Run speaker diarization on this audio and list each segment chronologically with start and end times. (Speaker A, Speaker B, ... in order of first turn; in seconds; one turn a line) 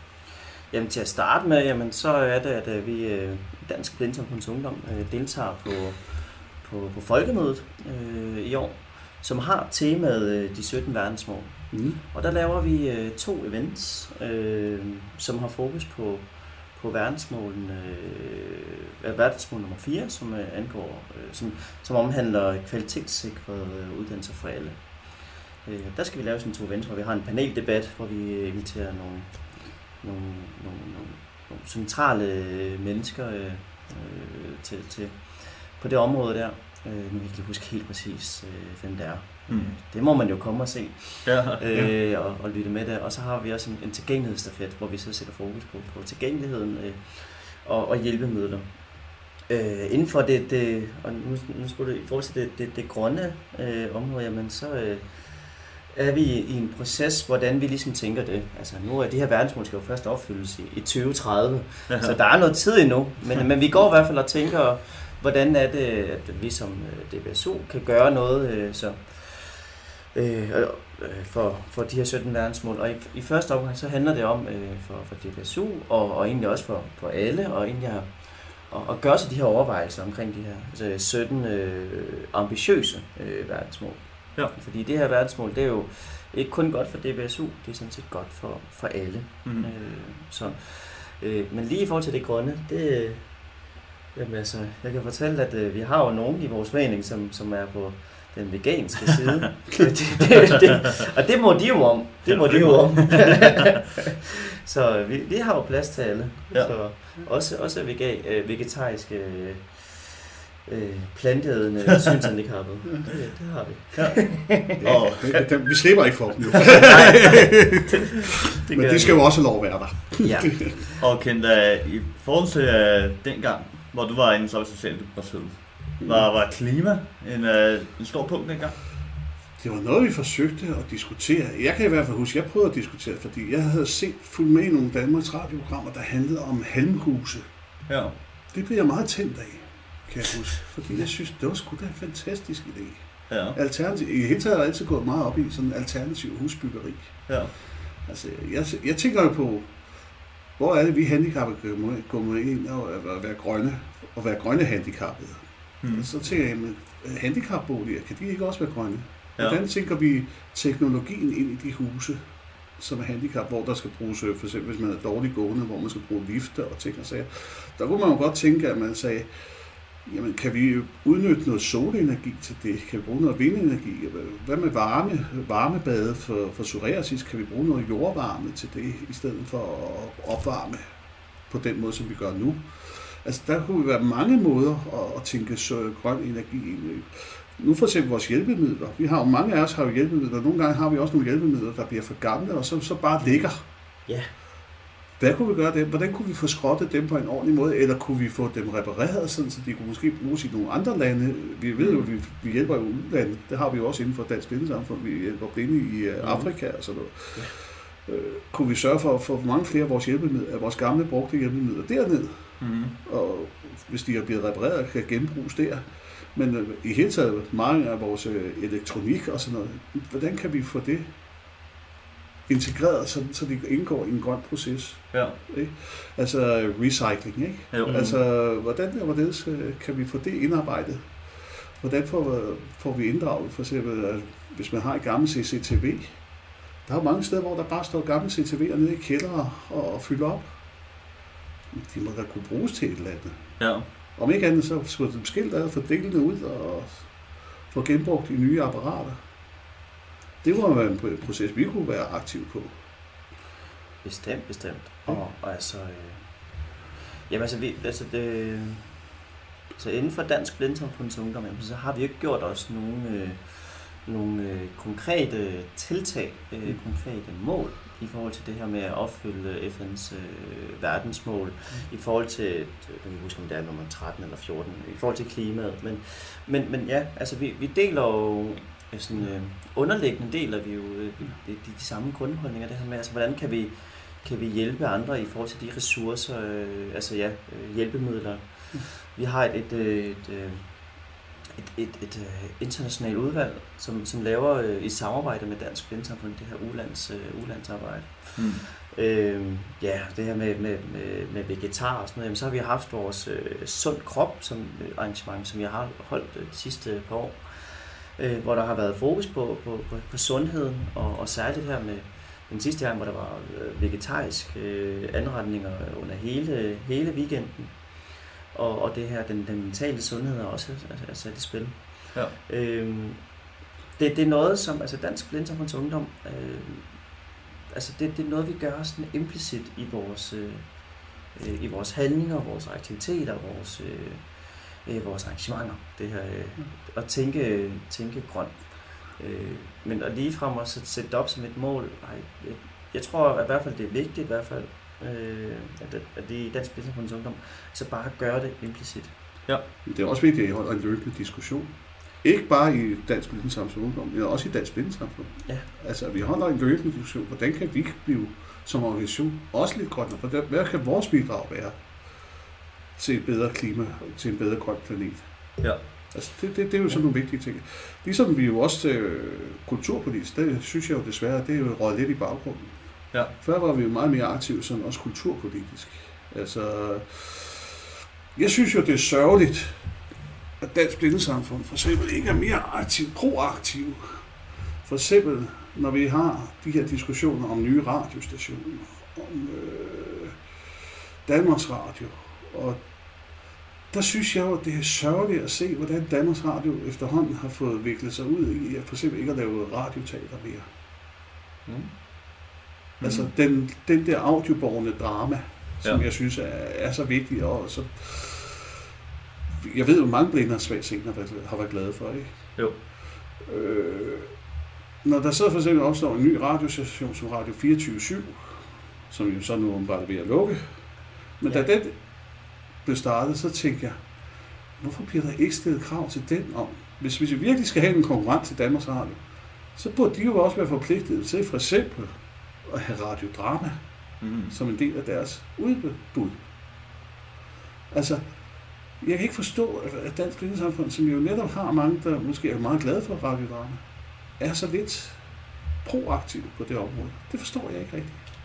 Speaker A: 0.7-93.6
Speaker B: 11.7-12.0
Speaker C: 41.2-41.9
Speaker C: 61.9-62.1
Speaker A: 94.1-115.1
Speaker C: 102.3-103.6
Speaker C: 106.5-106.8
Speaker C: 113.9-115.3
Speaker B: 114.8-120.7
Speaker A: 116.7-117.9
Speaker A: 118.7-120.9
Speaker C: 121.0-128.8
Speaker B: 126.0-126.2
Speaker B: 129.6-137.4
Speaker C: 137.9-138.1
Speaker B: 138.5-147.4
Speaker C: 143.3-143.6
Speaker C: 147.3-147.5
Speaker B: 148.0-149.8
Speaker B: 150.6-162.2
Speaker C: 155.8-156.1
Speaker B: 162.8-180.8
Speaker B: 181.5-193.6
Speaker A: 193.2-194.3
Speaker B: 195.2-221.1
Speaker C: 212.6-212.9
Speaker B: 222.5-236.3
Speaker C: 227.7-228.1
Speaker A: 227.9-228.2
Speaker B: 236.8-240.6
Speaker B: 241.7-249.2
Speaker C: 243.6-243.9
Speaker B: 250.4-252.8
Speaker A: 254.0-259.2
Speaker A: 259.7-323.4
Speaker A: 323.9-349.1
Speaker B: 349.8-361.8
Speaker B: 362.9-377.8
Speaker C: 365.6-366.1
Speaker B: 378.3-379.9
Speaker B: 380.6-384.3
Speaker B: 384.8-390.4
Speaker B: 391.2-392.9
Speaker B: 393.9-400.7
Speaker C: 403.0-403.3
Speaker B: 403.0-408.8
Speaker B: 409.6-412.6
Speaker B: 413.4-414.3
Speaker B: 415.0-422.1
Speaker B: 422.8-424.1
Speaker B: 424.8-429.2
Speaker B: 429.7-433.8
Speaker C: 434.2-434.5
Speaker B: 434.5-436.4
Speaker B: 437.9-438.4
Speaker B: 439.0-443.8
Speaker B: 444.4-445.2
Speaker B: 445.8-448.2